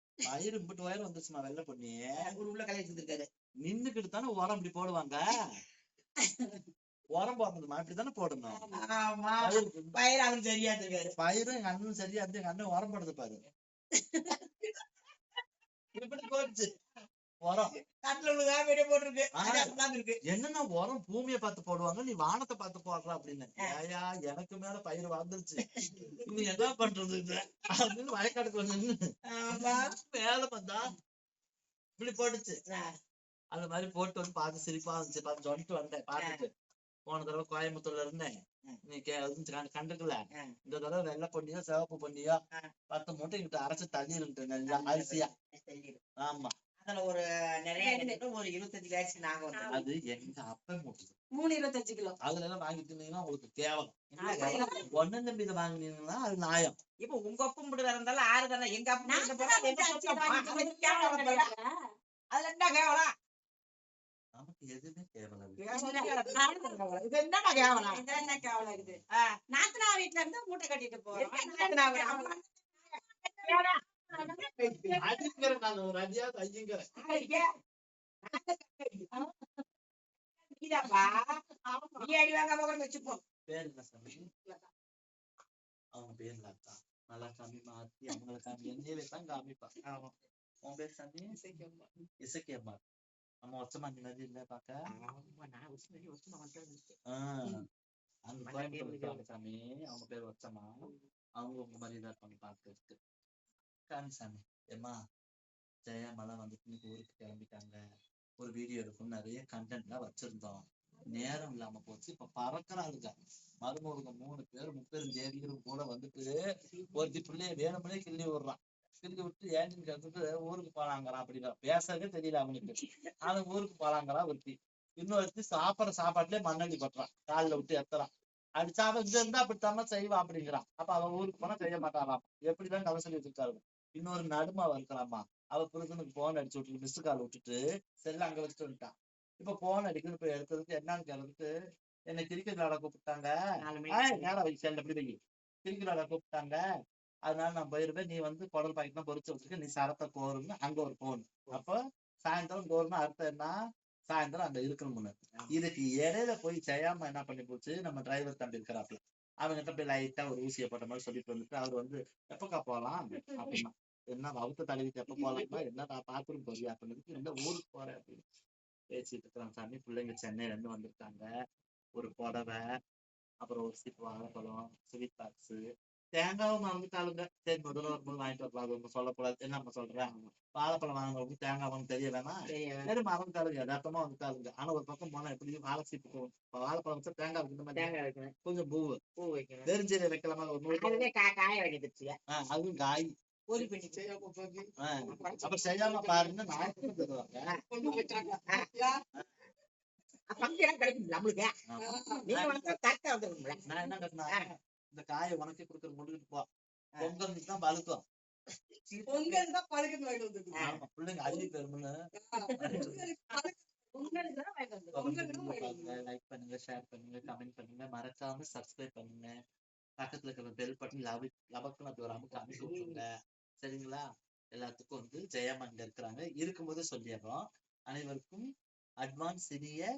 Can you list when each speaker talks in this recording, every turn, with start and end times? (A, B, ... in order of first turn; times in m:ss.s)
0:00.2-0:02.0 A
0:02.2-0:03.3 B
0:03.6-0:05.4 A
0:07.1-0:08.6 A
0:08.5-0:08.8 C
0:08.7-0:11.1 B
0:09.4-0:10.0 A
0:11.2-0:13.4 A
0:14.0-0:14.4 C
0:15.9-0:16.7 A
0:17.4-0:17.7 A
0:18.0-0:20.2 B
0:19.4-0:19.7 A
0:20.2-0:25.6 A
0:25.9-0:26.2 B
0:26.2-0:29.0 A
0:29.3-0:29.9 B
0:30.0-0:30.9 A
0:32.0-0:32.6 A
0:33.5-0:36.5 A
0:36.2-0:36.4 B
0:37.1-0:42.4 A
0:42.9-0:45.3 A
0:44.7-0:46.0 B
0:46.2-0:46.5 A
0:46.8-0:49.8 B
0:47.8-0:48.2 C
0:49.5-0:49.8 C
0:49.7-0:51.1 A
0:51.3-0:52.1 C
0:52.2-0:56.8 A
0:54.2-0:54.9 C
0:54.3-0:54.8 B
0:57.0-1:01.5 B
0:59.0-1:01.7 C
1:02.3-1:03.1 B
1:04.3-1:05.6 A
1:05.6-1:08.0 B
1:05.7-1:06.8 C
1:07.5-1:15.5 C
1:08.4-1:08.9 A
1:11.1-1:12.4 B
1:13.4-1:15.0 B
1:15.0-1:16.9 A
1:17.0-1:17.5 B
1:17.0-1:17.4 C
1:18.2-1:19.1 B
1:19.1-1:19.6 C
1:20.6-1:21.4 B
1:21.6-1:22.1 C
1:22.0-1:23.2 B
1:23.5-1:24.3 A
1:25.9-1:29.7 A
1:30.6-1:31.4 A
1:31.4-1:31.8 C
1:32.2-1:32.8 A
1:33.4-1:34.8 A
1:34.9-1:37.0 B
1:37.1-1:37.6 A
1:38.3-1:43.0 A
1:38.4-1:39.2 B
1:43.9-1:45.0 A
1:45.8-1:47.8 A
1:48.4-1:56.3 A
1:56.9-2:21.5 A
2:22.1-2:23.3 A
2:23.6-2:24.3 B
2:23.9-2:26.6 A
2:27.2-2:33.6 A
2:34.1-2:48.2 A
2:48.9-2:51.3 A
2:52.0-2:52.6 A
2:53.4-2:55.6 A
2:56.2-3:07.9 A
3:00.0-3:00.3 B
3:02.5-3:02.9 B
3:07.8-3:08.3 B
3:08.4-3:09.0 A
3:09.2-3:09.7 B
3:09.6-3:11.0 A
3:10.7-3:12.1 B
3:12.3-3:13.1 A
3:13.5-3:14.0 B
3:13.5-3:15.3 D
3:14.8-3:17.4 A
3:15.1-3:16.3 B
3:17.7-3:19.0 D
3:20.3-3:21.5 B
3:21.7-3:22.6 A
3:21.8-3:22.3 D
3:22.2-3:23.6 B
3:23.6-3:26.4 A
3:27.0-3:28.0 A
3:28.9-3:29.4 B
3:29.0-3:30.6 D
3:30.6-3:31.9 A
3:32.1-3:34.2 D
3:32.4-3:32.9 C
3:32.6-3:33.1 A
3:33.9-3:35.3 C
3:34.9-3:39.3 A
3:35.1-3:35.9 D
3:40.0-3:43.0 A
3:43.6-3:48.4 A
3:49.0-3:49.9 A